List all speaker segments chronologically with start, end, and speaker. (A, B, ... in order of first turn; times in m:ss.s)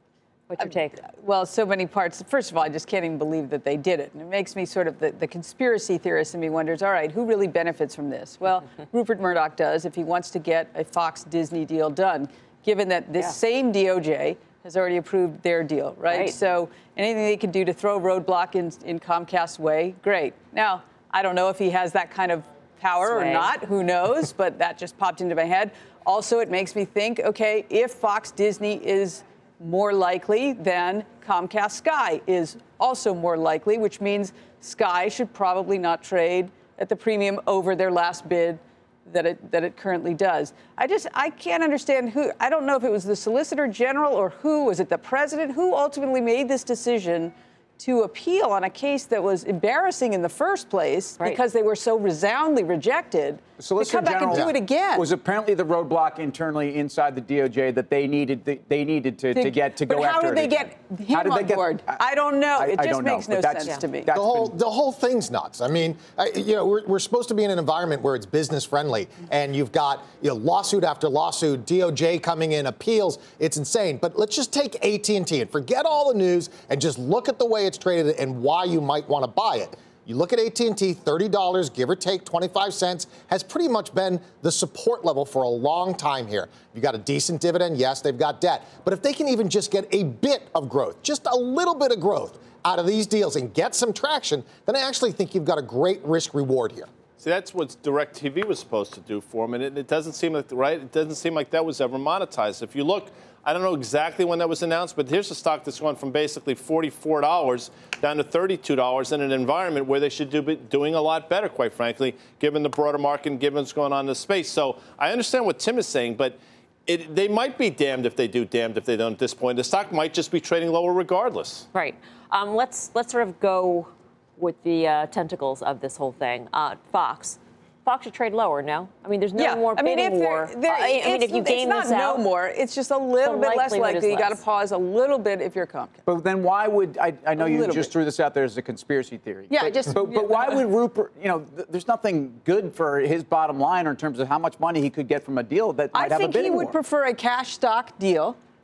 0:00.5-0:01.0 A
0:00.6-0:55.1 B
0:16.1-0:16.4 A
0:23.0-0:23.5 A
0:53.6-1:04.5 C
0:59.3-1:04.1 B
1:04.1-1:36.9 D
1:37.2-2:01.7 E
2:01.7-2:12.2 A
2:09.4-2:16.0 B
2:13.2-2:14.4 A
2:16.0-2:26.8 C
2:17.4-2:17.9 B
2:19.5-2:20.6 B
2:25.9-2:28.4 B